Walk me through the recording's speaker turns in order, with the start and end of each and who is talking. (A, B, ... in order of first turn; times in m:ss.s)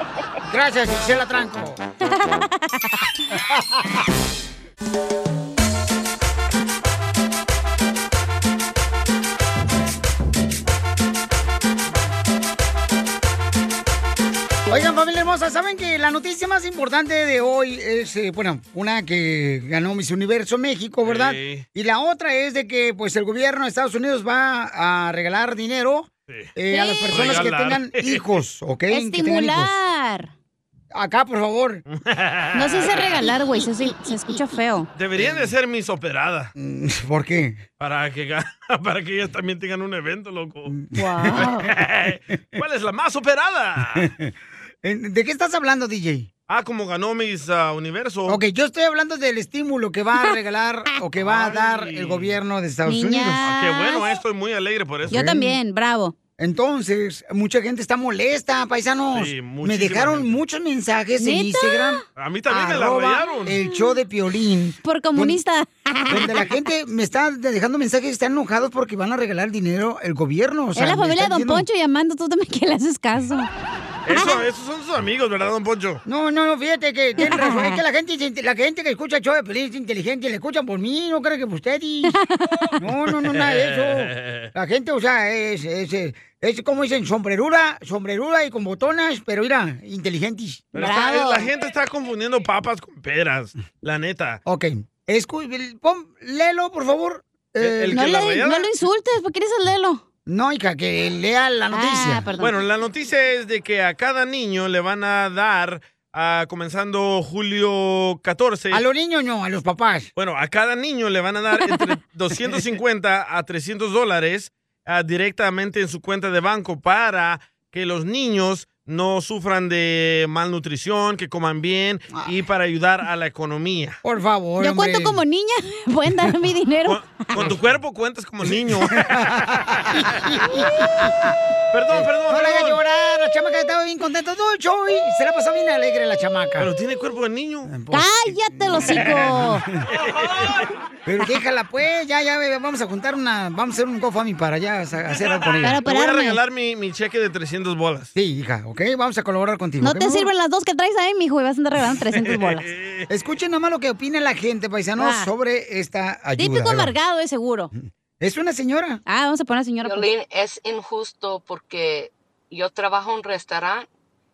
0:00.5-0:01.8 A
0:02.0-0:02.6 B
0:14.7-0:29.8 A
0:21.0-0:21.6 C
0:26.7-0:27.4 B
0:27.1-0:28.3 C
0:28.9-0:30.3 B
0:30.9-0:31.8 A
0:31.9-0:33.2 C
0:32.5-0:34.9 B
0:35.0-0:36.5 C
0:36.6-0:37.6 A
0:37.8-0:40.8 C
0:40.7-0:41.5 A
0:41.0-0:41.7 B
0:41.6-0:44.1 C
0:43.9-0:44.3 A
0:44.8-0:46.3 A
0:46.5-0:48.4 C
0:48.3-0:53.4 A
0:51.2-0:52.4 C
0:52.8-0:54.2 B
0:53.4-0:55.3 C
0:55.1-0:55.6 A
0:55.1-0:56.1 B
0:56.4-1:05.4 A
0:59.1-1:00.4 C
1:01.2-1:02.0 B
1:02.2-1:03.6 C
1:03.6-1:03.9 B
1:04.8-1:06.4 B
1:06.1-1:11.6 A
1:10.8-1:13.5 B
1:14.0-1:16.0 C
1:14.1-1:14.4 B
1:16.0-1:22.2 A
1:17.2-1:17.8 B
1:22.1-1:22.7 B
1:22.8-1:30.8 A
1:23.3-1:24.5 C
1:30.7-1:31.5 B
1:30.7-1:34.4 C
1:34.4-1:38.0 A
1:37.6-1:38.7 C
1:37.9-1:40.0 B
1:40.2-1:42.3 A
1:41.7-1:42.6 B
1:42.4-1:48.8 C
1:48.7-1:50.1 A
1:50.2-2:04.0 C
2:04.0-2:05.2 A
2:04.6-2:07.3 B
2:06.8-2:09.3 C
2:08.5-2:11.3 A
2:11.7-2:12.8 C
2:11.9-2:16.7 A
2:16.6-2:17.7 C
2:17.7-2:19.8 A
2:17.9-2:19.6 B
2:20.0-2:20.5 C
2:21.0-2:25.8 A
2:25.6-2:26.4 B
2:25.7-2:28.1 C
2:28.1-2:30.3 A
2:29.8-2:32.7 B
2:32.1-2:33.0 C
2:33.1-2:37.0 A
2:35.0-2:35.3 B
2:36.4-2:37.7 B
2:37.8-2:39.0 A
2:39.1-2:40.1 B
2:39.8-2:43.9 D